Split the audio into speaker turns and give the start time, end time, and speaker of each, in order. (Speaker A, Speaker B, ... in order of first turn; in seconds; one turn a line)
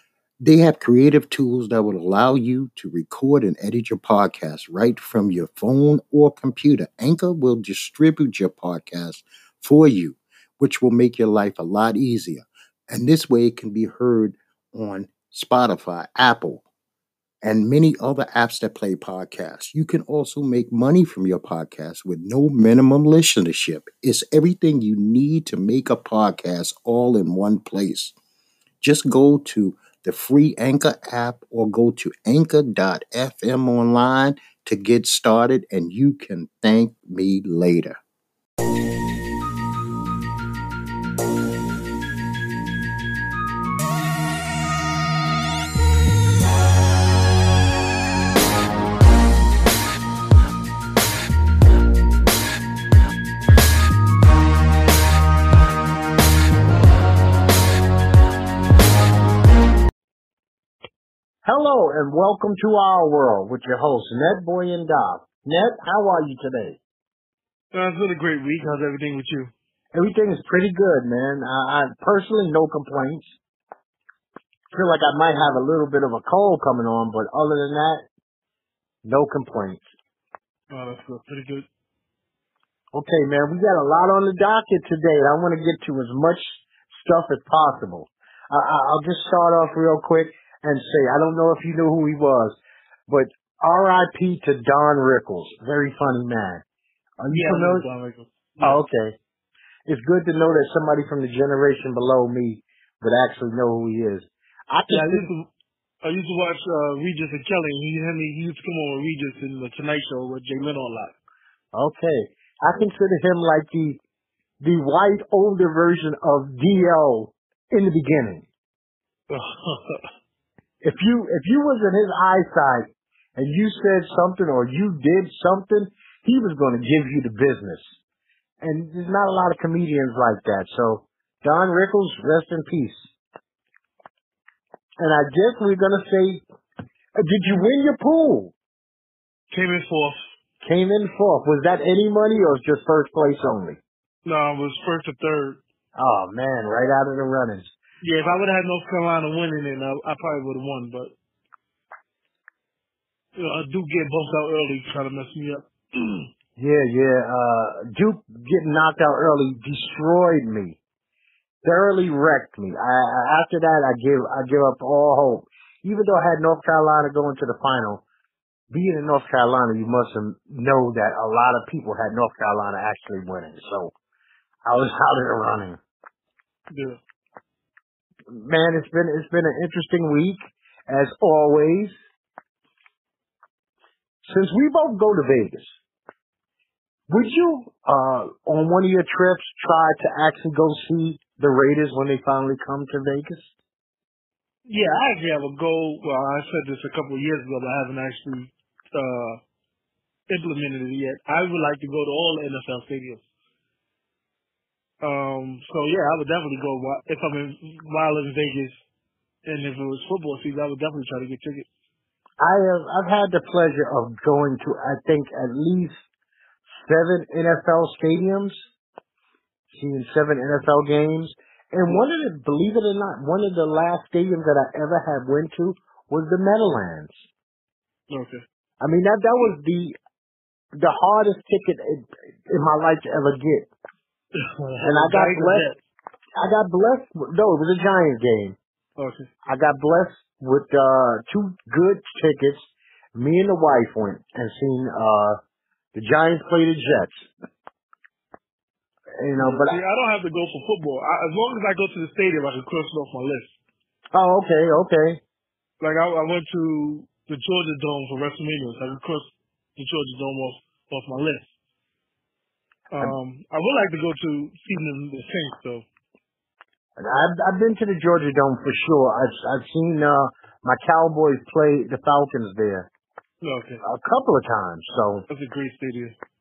Speaker A: 0.4-16.6
Speaker A: 17.4-28.1
Speaker A: 28.8-38.0
Speaker B: 61.4-66.8
Speaker C: 67.7-69.5
Speaker B: 69.9-73.3
Speaker B: 74.7-78.0
Speaker B: 79.0-79.8
Speaker C: 80.7-81.7
Speaker B: 82.9-96.6
Speaker B: 97.2-97.9
Speaker C: 97.3-98.8
Speaker B: 98.6-99.2
Speaker B: 99.9-105.3
Speaker C: 104.9-105.5
Speaker C: 106.0-111.1
Speaker B: 111.7-114.0
Speaker B: 114.6-118.5
Speaker C: 119.3-120.0
Speaker B: 120.8-127.8
Speaker B: 128.6-133.1
Speaker B: 135.0-136.4
Speaker B: 137.2-138.5
Speaker C: 139.5-140.2
Speaker B: 140.6-143.8
Speaker C: 144.2-145.6
Speaker B: 146.0-147.7
Speaker C: 148.0-151.1
Speaker C: 153.4-156.3
Speaker B: 156.6-160.8
Speaker B: 161.6-168.0
Speaker B: 168.7-173.9
Speaker B: 174.7-175.8
Speaker C: 176.7-177.0
Speaker B: 178.3-181.9
Speaker B: 184.2-185.7
Speaker B: 187.1-193.5
Speaker C: 194.7-199.4
Speaker C: 200.3-203.2
Speaker C: 205.0-208.8
Speaker C: 209.4-211.7
Speaker B: 212.4-216.0
Speaker B: 216.8-218.6
Speaker B: 219.7-227.1
Speaker C: 228.1-228.4
Speaker B: 228.8-230.0
Speaker B: 230.8-233.7
Speaker C: 234.3-235.8
Speaker B: 234.8-235.7
Speaker B: 236.4-238.6
Speaker C: 239.0-239.3
Speaker B: 239.4-245.4
Speaker B: 245.9-247.3
Speaker B: 249.2-249.8
Speaker C: 249.4-253.6
Speaker B: 254.1-255.2
Speaker C: 255.8-261.5
Speaker C: 262.9-265.9
Speaker B: 267.0-272.9
Speaker C: 273.4-273.8
Speaker B: 273.8-275.2
Speaker C: 275.3-276.1